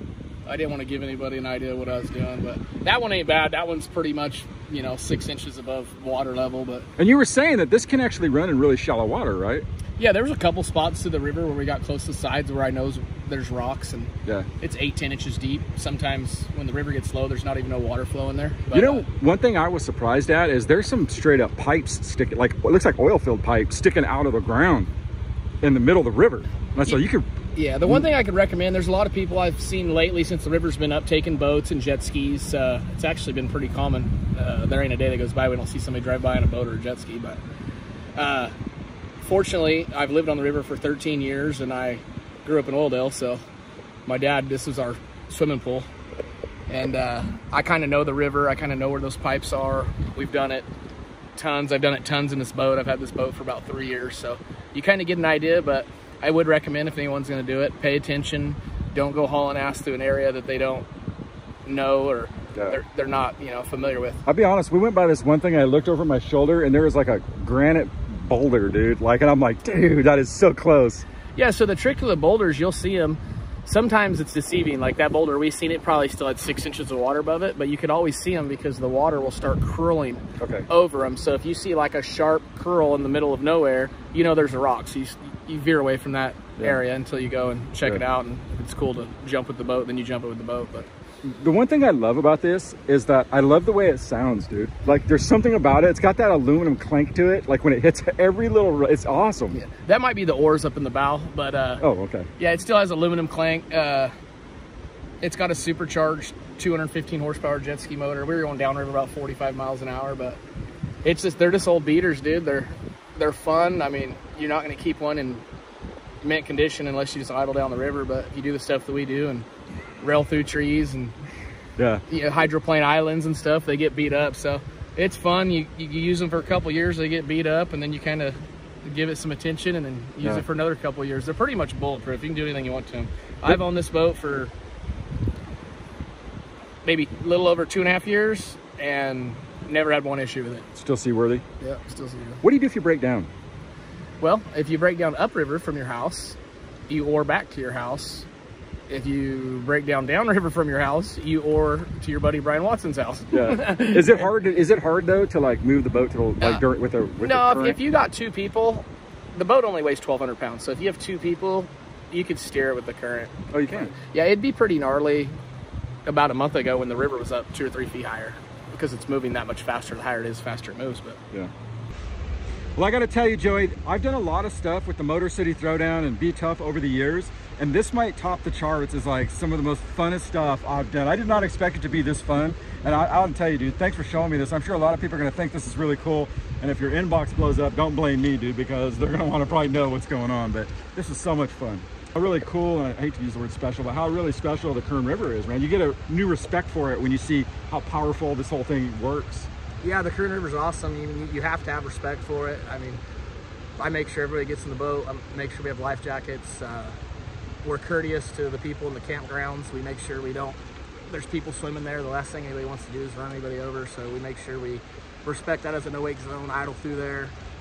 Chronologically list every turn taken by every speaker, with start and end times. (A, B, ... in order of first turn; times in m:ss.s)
0:00.5-0:06.9 A
0:07.0-0:09.6 B
0:10.0-0:19.1 A
0:18.7-0:24.9 B
0:25.6-0:27.2 B
0:27.6-0:37.4 A
0:38.2-0:38.5 A
0:39.2-0:43.4 A
0:44.1-0:45.9 A
0:46.7-0:50.7 A
0:51.4-1:00.9 A
1:01.6-1:04.2 A
1:04.3-1:11.1 B
1:11.4-1:30.9 A
1:20.4-1:20.7 B
1:31.2-1:39.6 B
1:39.5-1:41.8 A
1:41.8-1:42.3 B
1:42.4-1:44.1 A
1:45.2-1:50.4 A
1:51.0-1:55.4 A
1:56.2-1:59.5 A
2:00.0-2:01.2 A
2:01.8-2:02.0 B
2:02.1-2:14.5 A
2:16.8-2:20.7 A
2:20.8-2:21.4 B
2:21.6-2:22.4 A
2:22.4-2:23.3 B
2:24.2-2:28.3 A
2:28.9-2:34.3 A
2:33.3-2:37.8 B
2:37.2-2:45.4 A
2:43.5-2:43.9 B
2:46.1-2:51.2 A
2:52.8-3:19.5 B
3:19.8-3:23.0 A
3:23.8-3:27.0 A
3:27.6-3:37.4 A